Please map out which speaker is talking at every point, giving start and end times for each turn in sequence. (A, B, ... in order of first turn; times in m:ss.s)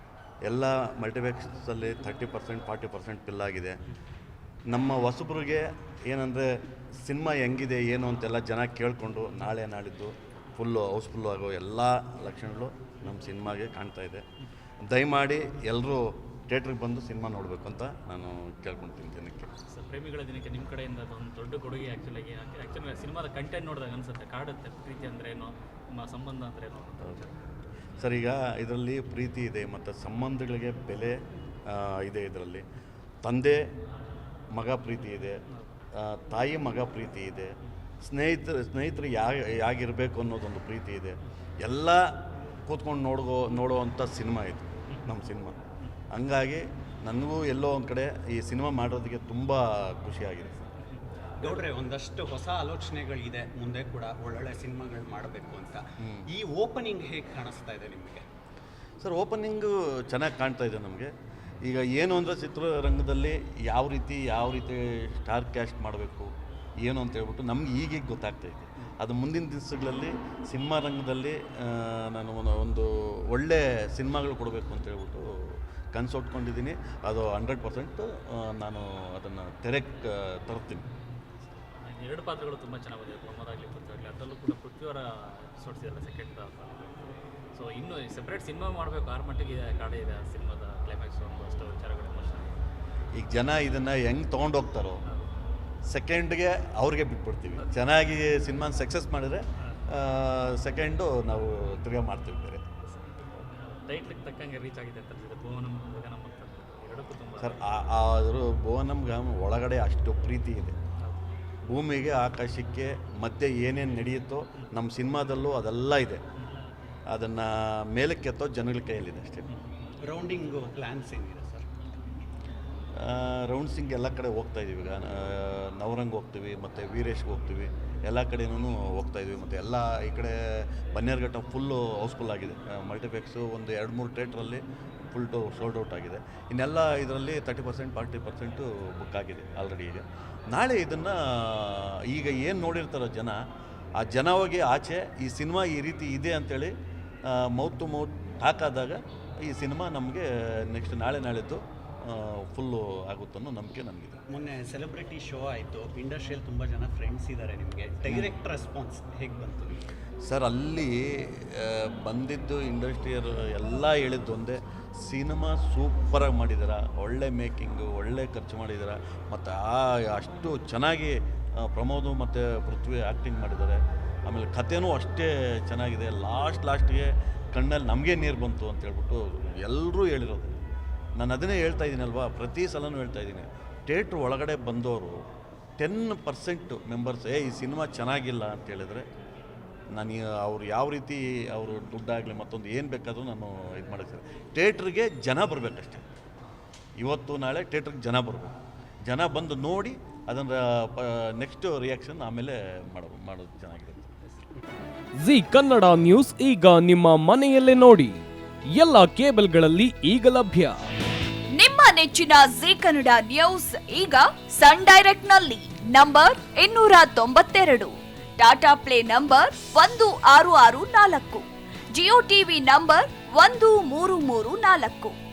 0:00.4-0:03.8 A
0:04.7-0:14.2 A
0:14.8-0:19.5 A
0:19.7-0:27.3 B
0:28.0-0:32.6 A
0:33.2-0:33.6 A
0:34.5-0:35.4 A
0:35.9-0:37.5 A
0:38.0-0:42.2 A
0:42.7-0:45.6 A
0:46.1-0:50.6 A
0:51.0-0:51.5 B
0:51.4-0:58.2 C
0:56.0-0:56.3 A
0:59.0-1:01.1 A
1:01.6-1:06.3 A
1:06.8-1:20.9 A
1:21.8-1:27.0 B
1:27.5-1:32.5 B
1:33.2-1:35.0 A
1:35.9-1:42.6 A
1:42.9-1:47.6 B
1:47.4-1:50.8 A
1:51.0-1:51.3 B
1:51.7-1:56.2 A
1:57.1-1:59.5 A
2:00.0-2:02.2 C
2:03.0-2:23.4 A
2:24.0-2:26.7 A
2:27.3-2:34.2 A
2:34.3-2:39.8 C
2:40.2-3:00.6 A
3:01.2-3:05.2 A
3:05.8-3:09.1 A
3:09.9-3:16.0 A
3:17.0-3:18.5 A
3:19.1-3:24.1 A
3:25.2-3:30.8 D
3:31.5-3:45.2 E